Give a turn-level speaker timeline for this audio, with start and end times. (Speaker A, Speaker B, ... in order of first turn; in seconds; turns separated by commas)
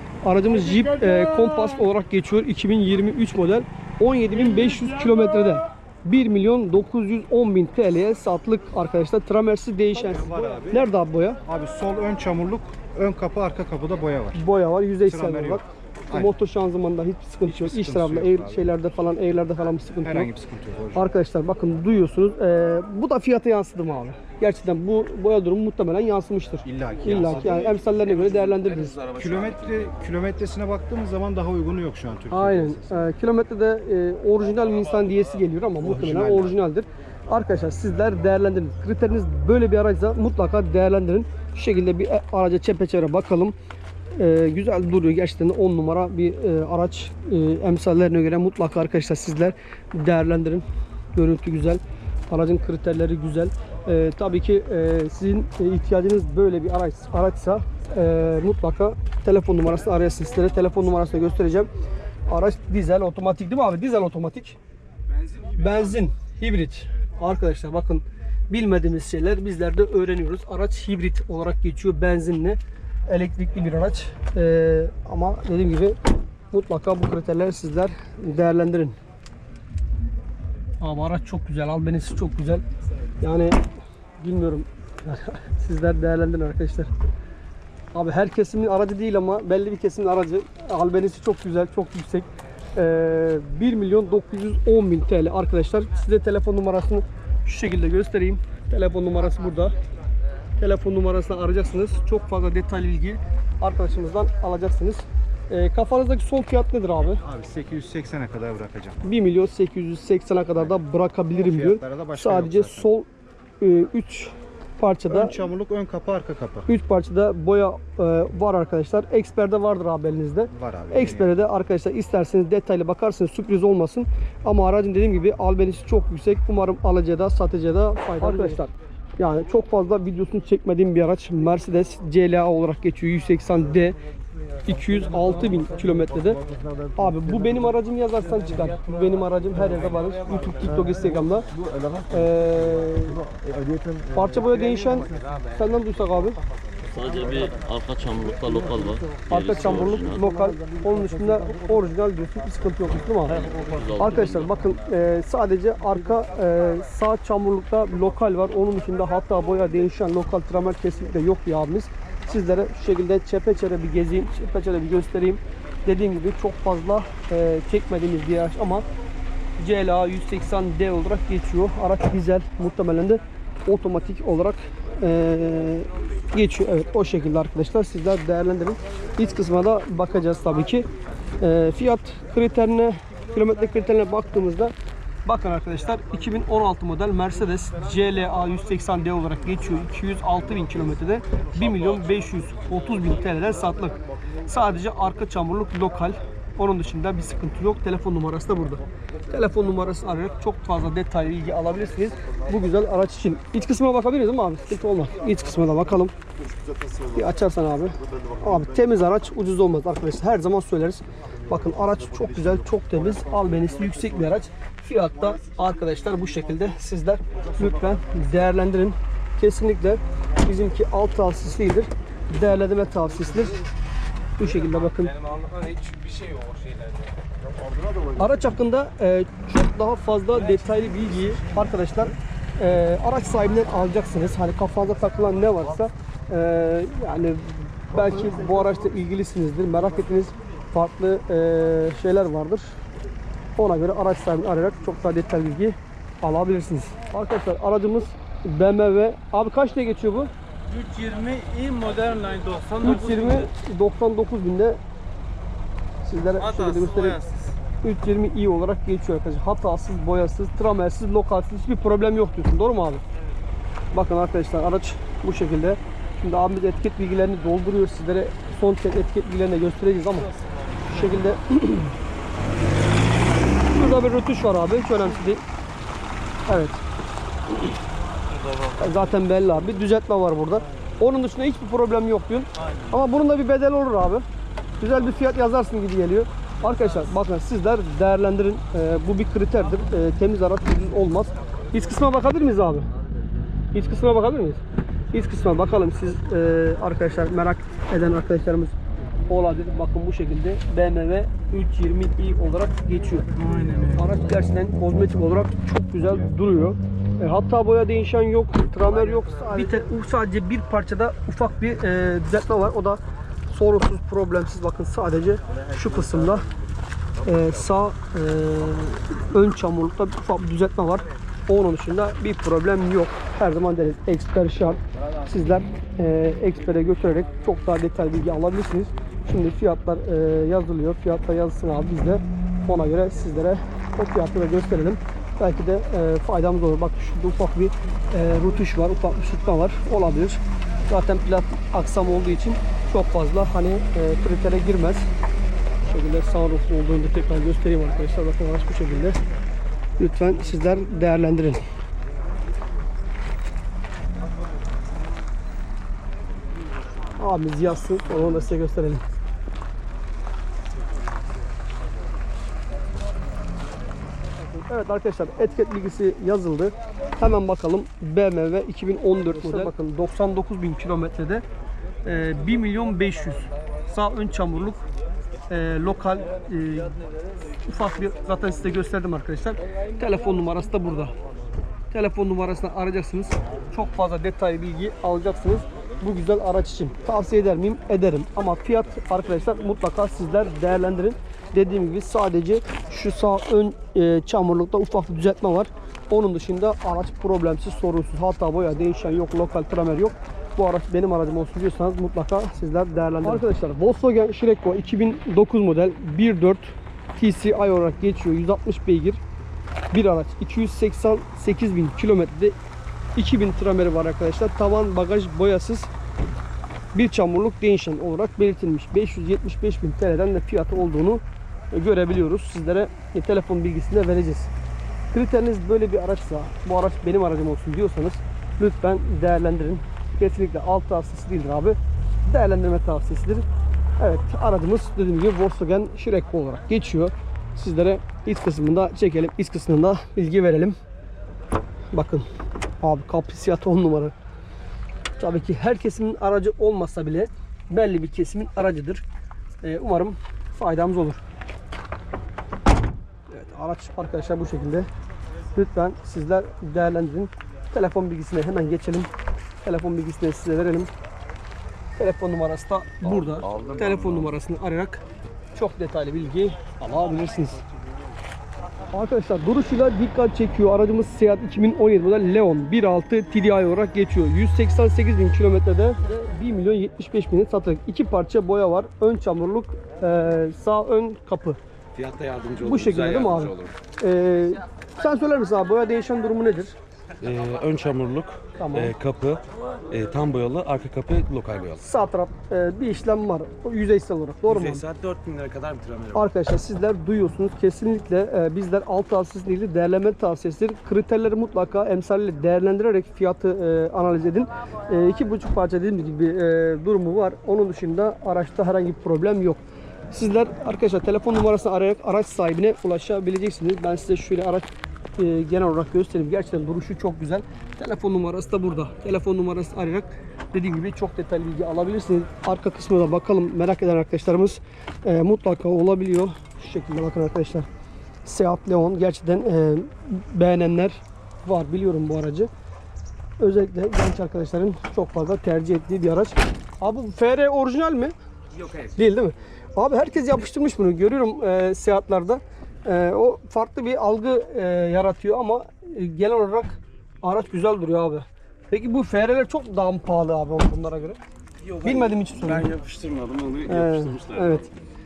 Speaker A: 0.2-11.4, Speaker B: 9.9-10.9, Speaker B: 11.4-14.4, Speaker A: 14.3-20.3, Speaker B: 15.1-16.3, Speaker B: 17.4-18.7, Speaker B: 20.0-21.1, Speaker A: 20.9-29.0, Speaker B: 26.6-27.7, Speaker C: 27.2-29.9, Speaker B: 29.2-33.0, Speaker A: 32.3-43.5, Speaker B: 35.8-36.6, Speaker A: 44.2-61.7, Speaker A: 62.3-64.6, Speaker A: 65.5-76.0, Speaker A: 76.5-79.0, Speaker A: 80.8-82.6, Speaker A: 83.2-83.6, Speaker A: 84.2-86.9, Speaker A: 87.9-99.8, Speaker A: 100.6-107.2, Speaker B: 107.1-109.0, Speaker A: 109.0-113.1, Speaker B: 111.4-112.9, Speaker A: 113.6-115.4, Speaker B: 115.1-116.7, Speaker A: 116.7-134.0, Speaker B: 120.5-121.3, Speaker A: 134.7-136.4, Speaker A: 136.9-141.5, Speaker A: 142.1-143.2, Speaker A: 144.1-146.4, Speaker D: 146.9-150.2, Speaker A: 149.3-153.5, Speaker D: 153.4-154.5, Speaker A: 154.0-168.8, Speaker A: 169.6-180.9, Speaker A: 181.4-184.7, Speaker A: 185.2-206.1, Speaker A: 207.1-223.6, Speaker A: 224.4-225.3, Speaker E: 225.2-227.0, Speaker A: 228.2-242.7, Speaker A: 243.6-250.3, Speaker E: 250.7-252.8, Speaker A: 252.8-254.8, Speaker A: 256.0-257.2, Speaker E: 257.2-257.5, Speaker A: 257.8-263.0, Speaker A: 263.9-271.9, Speaker A: 273.6-275.4, Speaker A: 276.5-276.8, Speaker A: 278.7-284.3, Speaker A: 284.8-292.9, Speaker A: 293.7-294.6, Speaker A: 295.1-298.8, Speaker A: 299.3-316.5, Speaker E: 303.5-303.8, Speaker A: 317.2-345.1, Speaker A: 345.8-349.2, Speaker A: 350.0-351.6, Speaker A: 357.2-359.0, Speaker A: 364.4-371.4, Speaker A: 372.0-374.8, Speaker A: 375.5-377.0, Speaker A: 377.6-381.1, Speaker A: 381.9-409.2, Speaker A: 409.9-412.6, Speaker A: 413.2-415.9, Speaker A: 416.9-424.5, Speaker A: 425.1-433.4, Speaker A: 434.0-440.8, Speaker A: 441.9-442.3, Speaker A: 442.8-444.1, Speaker A: 445.2-449.1, Speaker A: 449.6-451.2, Speaker A: 453.3-454.9, Speaker A: 455.5-459.1, Speaker A: 459.6-460.9, Speaker A: 462.0-465.0, Speaker C: 463.0-464.3, Speaker A: 465.6-467.6, Speaker A: 468.9-481.6, Speaker C: 481.9-483.7, Speaker A: 482.6-486.8, Speaker C: 487.2-491.8, Speaker A: 488.6-488.9, Speaker A: 491.8-494.9, Speaker C: 494.5-496.3, Speaker A: 496.1-514.6, Speaker A: 515.2-527.7, Speaker A: 528.2-532.5, Speaker A: 533.4-538.1, Speaker A: 538.8-551.2, Speaker C: 551.6-554.7, Speaker A: 551.8-552.8, Speaker A: 553.7-554.7